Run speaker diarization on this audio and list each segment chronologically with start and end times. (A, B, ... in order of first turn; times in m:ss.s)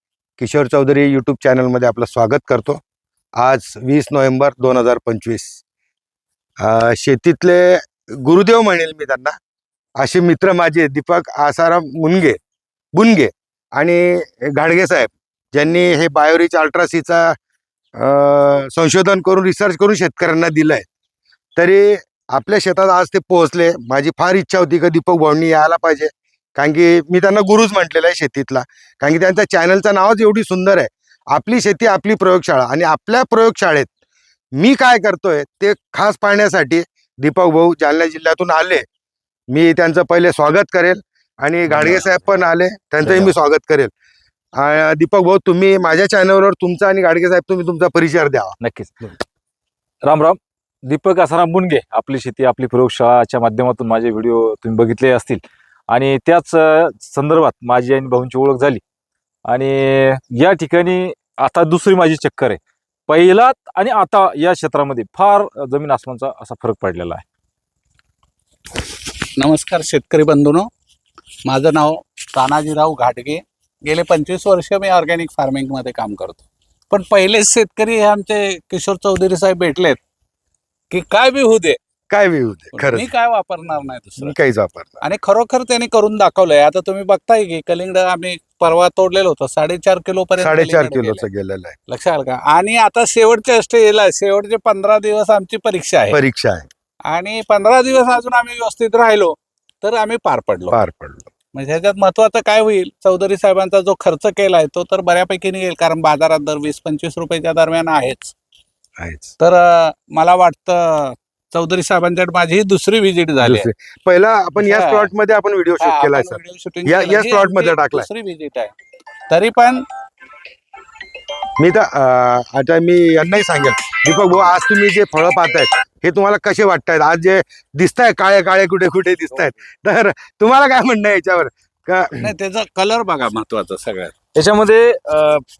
0:00.4-0:02.8 A
0:03.4-0:05.6 A
0:06.6-0:09.3 A
0:10.0-0:12.4 A
0:12.9-0:17.4 A
0:18.0-0:20.9 A
0:21.6-0:33.9 A
0:34.6-0:38.8 A
0:39.5-0:43.9 A
0:41.7-0:42.0 B
0:43.0-0:43.4 B
0:44.6-0:48.6 A
0:48.6-0:49.0 B
0:50.1-0:58.8 B
0:59.5-1:07.2 B
1:09.4-1:10.7 C
1:11.5-1:20.0 C
1:20.9-1:21.8 C
1:22.1-1:23.1 A
1:22.7-1:24.4 C
1:24.2-1:25.0 A
1:25.0-1:31.3 C
1:30.4-1:31.8 A
1:31.9-1:36.2 C
1:36.1-1:36.7 A
1:37.1-1:40.8 C
1:40.7-1:41.3 A
1:41.5-1:48.3 C
1:49.0-1:49.3 A
1:49.4-1:53.7 C
1:53.4-1:58.1 A
1:54.6-1:55.1 C
1:55.8-1:58.7 C
1:59.3-1:59.9 C
2:01.6-2:12.3 A
2:12.2-2:14.1 C
2:14.4-2:15.4 B